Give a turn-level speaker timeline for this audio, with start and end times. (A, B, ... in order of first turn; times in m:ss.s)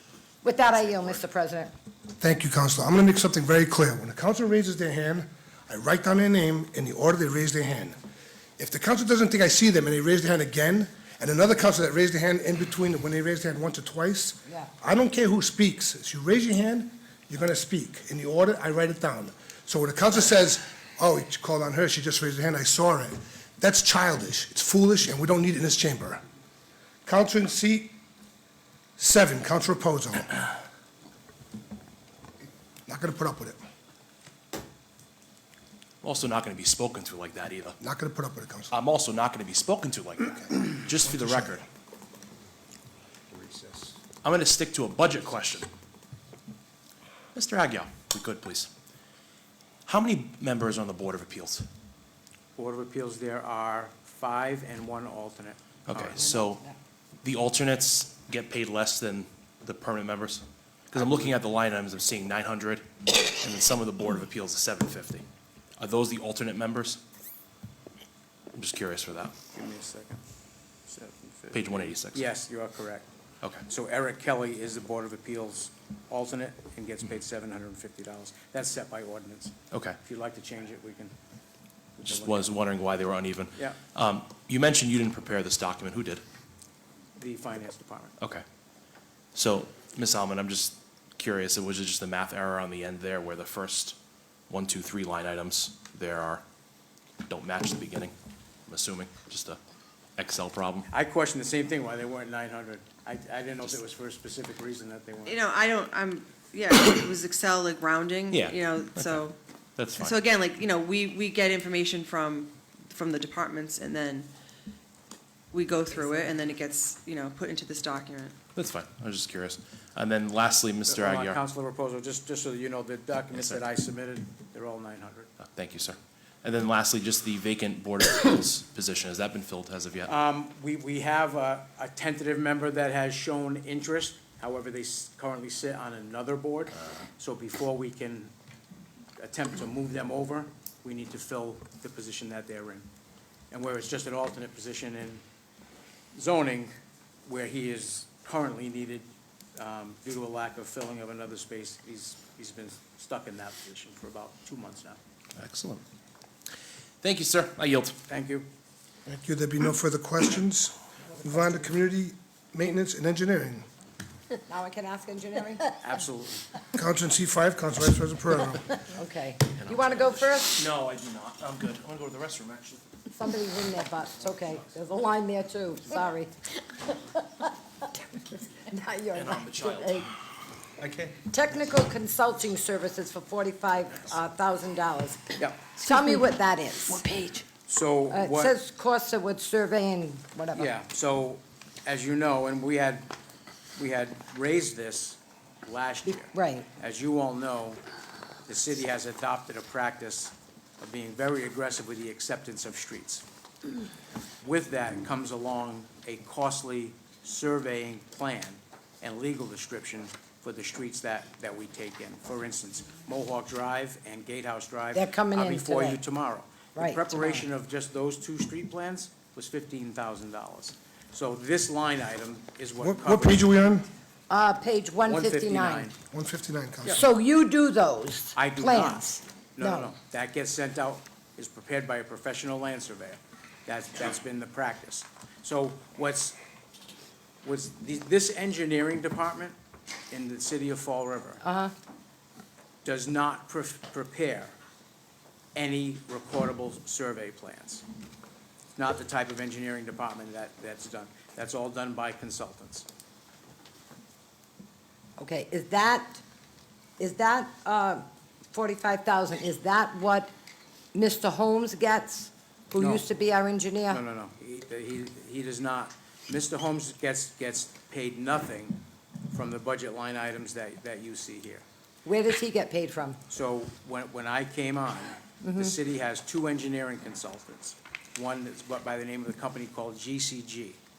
0:00.4-0:01.7 A
0:00.6-0:01.2 B
0:02.2-0:08.0 C
0:08.6-0:26.2 C
0:27.0-0:27.9 C
0:29.0-0:30.4 C
0:32.9-0:33.6 C
0:36.0-0:37.8 B
0:37.8-0:38.7 C
0:38.7-0:41.6 B
0:41.0-0:41.6 C
0:44.2-0:45.7 B
0:47.3-0:48.7 B
0:49.8-0:51.6 B
0:52.6-0:56.2 D
0:55.9-0:56.6 B
0:57.2-1:05.2 B
1:05.8-1:07.0 B
1:08.5-1:09.4 B
1:09.5-1:10.2 D
1:10.9-1:13.1 D
1:11.5-1:12.3 B
1:13.7-1:21.1 D
1:19.7-1:20.0 B
1:22.0-1:22.6 D
1:22.0-1:26.2 B
1:27.2-1:28.1 D
1:29.3-1:34.0 B
1:34.5-1:36.4 B
1:37.3-1:38.1 B
1:38.7-1:39.6 B
1:40.2-1:40.9 B
1:40.9-1:45.4 D
1:45.2-1:49.4 E
1:48.3-1:49.2 B
1:49.8-1:50.2 B
1:49.9-1:54.3 E
1:55.5-1:58.4 E
1:58.5-2:01.4 B
2:00.9-2:05.3 D
2:03.3-2:03.6 B
2:05.4-2:10.1 B
2:10.0-2:18.3 D
2:19.2-2:22.9 D
2:23.5-2:25.2 D
2:26.1-2:26.7 D
2:27.2-2:35.0 D
2:35.4-2:35.8 B
2:37.0-2:38.0 B
2:38.1-2:38.5 D
2:39.1-2:43.6 C
2:44.5-2:45.8 A
2:45.8-2:46.4 D
2:46.7-2:48.6 C
2:48.9-2:50.7 A
2:49.6-2:52.8 B
2:53.1-2:56.3 A
2:54.3-2:54.6 B
2:56.8-3:00.1 A
2:59.1-3:00.1 B
3:00.8-3:01.1 B
3:01.3-3:05.2 A
3:05.4-3:05.7 D
3:05.8-3:07.1 A
3:07.0-3:07.4 E
3:07.6-3:08.5 D
3:08.1-3:10.7 A
3:10.5-3:13.1 D
3:13.8-3:17.8 D
3:16.3-3:16.7 A
3:18.5-3:23.2 D
3:24.4-3:43.6 D
3:34.9-3:36.0 A
3:36.7-3:37.4 A
3:42.8-3:43.9 C
3:44.3-3:45.9 A
3:45.0-3:45.9 D
3:46.1-3:47.0 C
3:46.9-3:49.9 A
3:48.3-3:56.4 D
3:57.4-3:59.5 D
4:00.1-4:01.4 D
4:01.4-4:01.7 A
4:02.8-4:04.5 D
4:05.5-4:07.8 D
4:08.8-4:12.8 D
4:15.2-4:16.2 A
4:17.0-4:20.3 A
4:20.9-4:24.0 A
4:22.8-4:23.0 D
4:23.9-4:28.8 D
4:29.3-4:31.6 D
4:32.0-4:33.2 A
4:33.3-4:40.8 D
4:35.4-4:35.7 A